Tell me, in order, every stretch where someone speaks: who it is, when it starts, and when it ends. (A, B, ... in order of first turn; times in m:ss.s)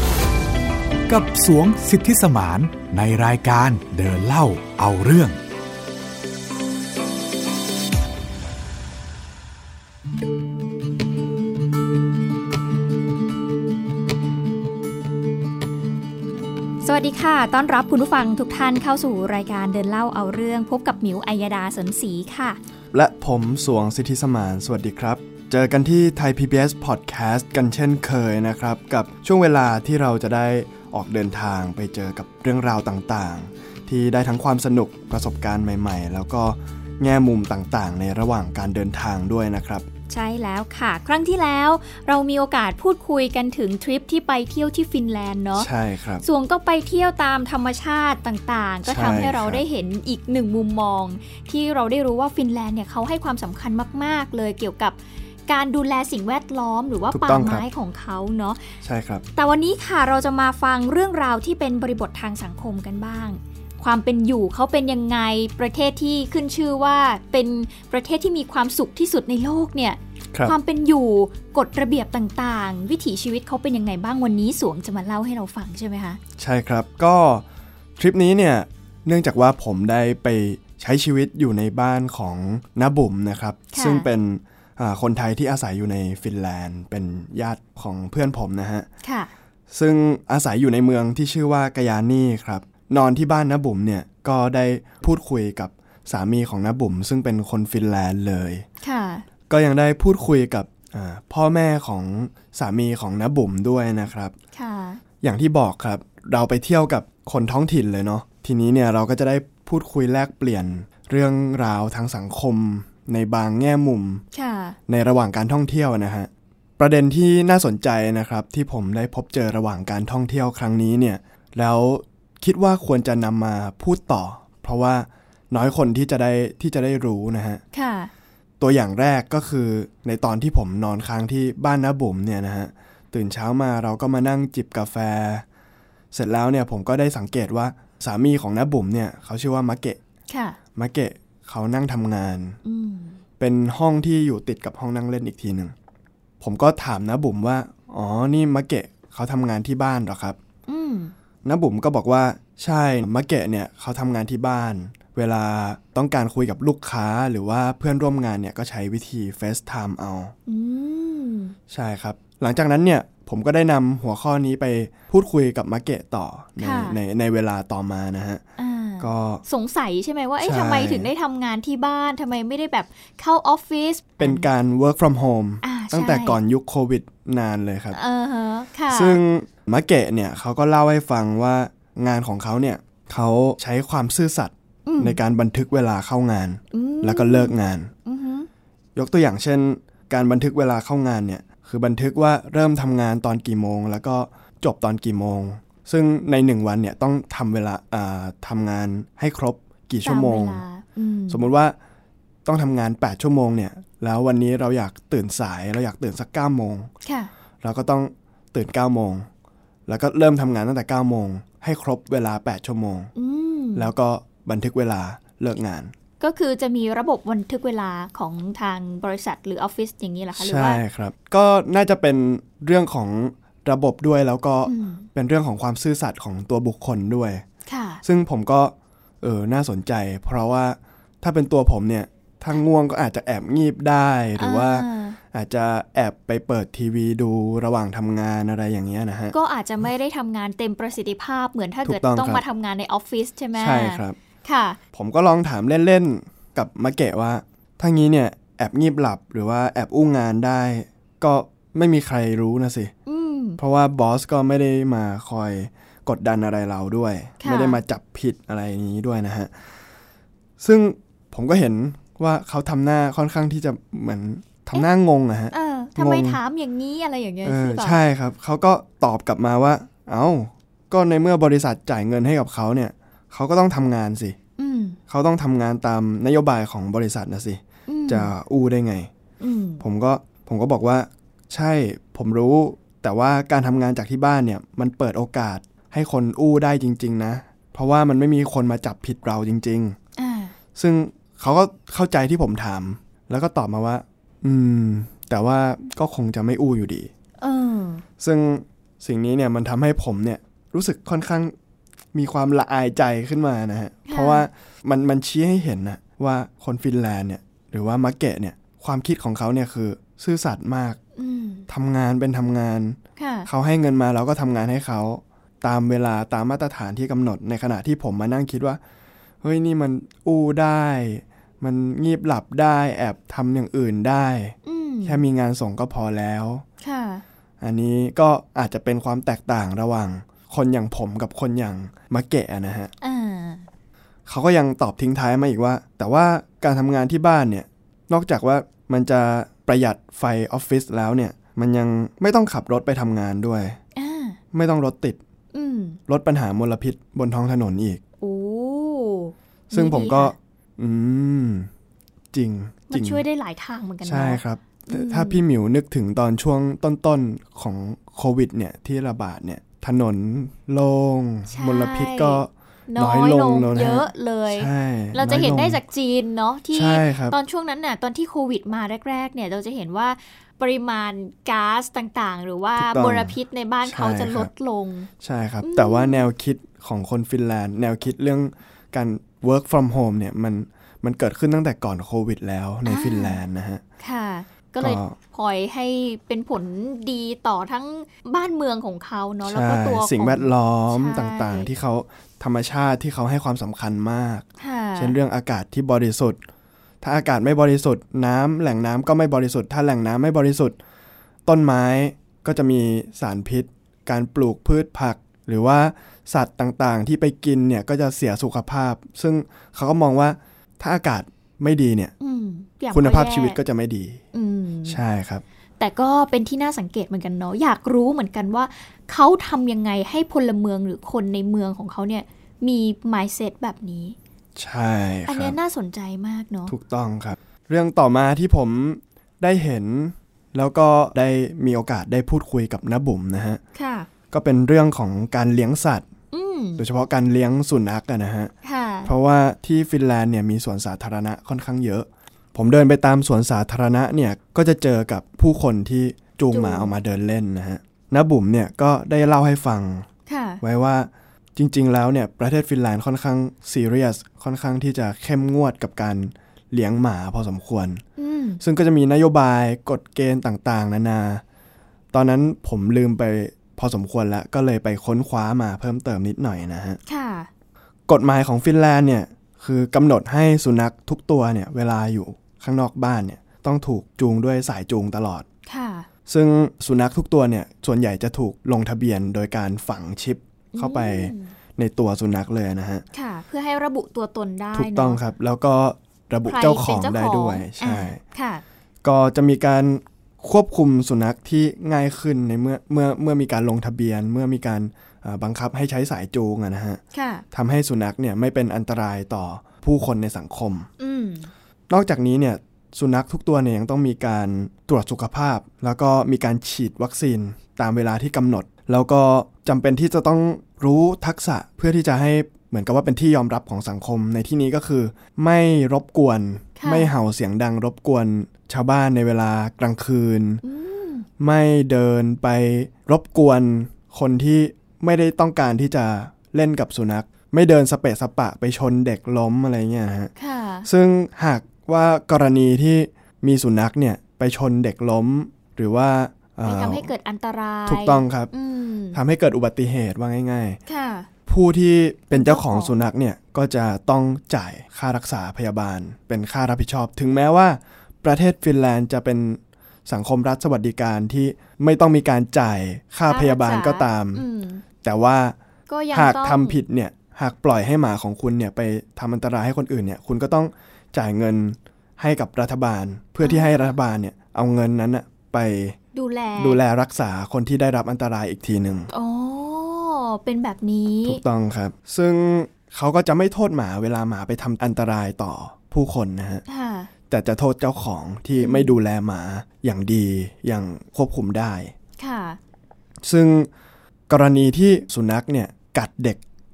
0:01.1-0:05.4 A
0:16.8-0:22.6 B
0:22.9-0:39.9 C
0:40.1-0:45.7 B
0:45.6-0:46.2 C
0:46.2-0:58.7 B
0:48.8-0:49.6 C
0:57.1-0:57.6 C
0:58.8-0:59.2 C
0:59.3-1:16.2 B
1:16.4-1:17.4 C
1:18.0-1:28.9 C
1:23.7-1:24.1 B
1:29.0-1:29.3 B
1:29.7-1:38.6 C
1:38.8-1:39.2 B
1:39.5-1:44.3 C
1:44.5-1:45.0 B
1:45.2-1:54.2 C
1:54.3-1:54.8 B
1:54.9-2:07.6 C
2:07.7-2:08.1 B
2:08.6-2:15.4 C
2:16.1-2:20.0 C
2:20.3-2:20.6 B
2:20.7-2:22.6 C
2:22.6-2:23.2 B
2:23.4-2:25.7 C
2:26.4-2:30.4 C
2:30.7-2:31.1 B
2:31.4-2:40.3 C
2:40.5-2:41.5 B
2:41.7-2:48.4 C
2:46.6-2:47.0 B
2:48.6-2:54.5 B
2:49.0-2:49.4 C
2:50.4-2:51.1 C
2:54.2-2:58.0 C
2:55.6-2:56.4 B
2:57.9-2:59.2 B
2:58.9-3:07.9 C
3:04.8-3:05.2 B
3:06.7-3:08.5 B
3:09.0-3:20.6 C
3:20.0-3:21.5 B
3:21.3-3:21.8 C
3:22.4-3:26.9 C
3:27.0-3:27.3 B
3:27.6-3:29.3 C
3:29.9-3:33.1 C
3:33.2-3:33.9 B
3:33.7-3:35.9 C
3:36.2-3:40.8 B
3:40.4-3:47.4 C
3:44.6-3:45.1 B
3:47.6-3:48.0 B
3:48.0-3:59.3 C
3:54.4-3:55.2 B
3:59.3-4:04.8 B
4:01.8-4:02.4 C
4:03.6-4:04.2 C
4:04.9-4:12.9 C
4:13.0-4:13.6 B
4:13.6-4:19.5 C
4:17.4-4:17.8 B
4:20.6-4:26.4 C
4:25.5-4:28.0 B
4:27.4-4:34.4 C
4:34.6-4:35.0 B
4:35.1-4:39.1 C
4:37.9-4:38.3 B
4:39.4-4:39.8 B
4:39.8-4:50.0 C
4:50.2-4:50.5 B
4:50.7-4:57.1 C
4:57.4-4:58.0 B
4:58.2-5:01.5 C
5:02.1-5:11.0 C
5:04.1-5:04.5 B
5:11.2-5:11.7 B
5:11.7-5:18.8 C
5:13.2-5:13.5 B
5:19.4-5:26.6 C
5:24.6-5:25.2 B
5:26.8-5:27.2 B
5:27.6-5:32.9 C
5:33.0-5:33.6 B
5:34.3-5:43.8 C
5:43.9-5:44.4 B
5:44.5-5:45.2 C
5:45.5-5:46.0 B
5:46.1-5:48.0 C
5:48.2-5:50.3 B
5:49.7-5:51.7 C
5:52.3-5:53.2 C
5:52.9-5:55.4 B
5:54.0-6:05.8 C
6:01.5-6:15.1 B
6:06.7-6:07.4 C
6:12.8-6:14.5 C
6:15.2-6:23.8 C
6:15.6-6:16.2 B
6:22.8-6:23.4 B
6:24.0-6:31.7 B
6:24.8-6:25.2 C
6:29.4-6:36.4 C
6:34.6-6:35.2 B
6:37.0-6:40.8 C
6:41.4-6:52.1 C
6:52.2-6:53.6 B
6:52.9-6:54.2 C
6:54.3-6:55.0 B
6:54.8-6:55.4 C
6:55.8-7:04.2 B
7:04.6-7:05.6 C
7:05.3-7:06.7 B
7:06.7-7:13.6 C
7:13.7-7:14.1 B
7:14.3-7:16.1 C
7:16.3-7:16.8 B
7:16.8-7:18.5 C
7:18.6-7:19.1 B
7:19.0-7:30.1 C
7:26.5-7:26.9 B
7:30.3-7:30.6 B
7:30.6-7:38.0 C
7:38.2-7:38.6 B
7:38.6-7:41.4 C
7:42.1-7:47.0 C
7:47.1-7:47.5 B
7:48.1-7:55.4 C
7:55.6-7:56.1 B
7:56.3-8:03.0 C
8:00.7-8:01.5 B
8:03.1-8:05.2 B
8:04.7-8:08.2 C
8:06.4-8:08.6 B
8:09.0-8:17.0 C
8:17.1-8:17.4 B
8:17.5-8:20.9 C
8:21.0-8:21.5 B
8:21.9-8:40.6 C
8:36.8-8:37.1 B
8:40.6-8:41.3 B
8:41.4-8:50.3 C
8:50.4-8:50.9 B
8:50.8-8:57.1 C
8:56.6-8:59.2 B
8:57.8-8:58.5 C
8:59.1-9:00.8 C
9:00.8-9:01.3 B
9:01.5-9:14.4 C
9:02.3-9:03.0 B
9:13.3-9:14.8 B
9:15.0-9:15.6 C
9:15.9-9:16.8 B
9:16.1-9:26.0 C
9:23.4-9:23.9 B
9:26.1-9:26.8 B
9:26.6-9:29.1 C
9:29.1-9:31.4 B
9:31.2-9:36.6 C
9:36.7-9:37.1 B
9:37.3-9:41.9 C
9:38.6-9:39.0 B
9:42.2-9:42.6 B
9:43.2-9:43.7 C
9:44.3-9:46.4 C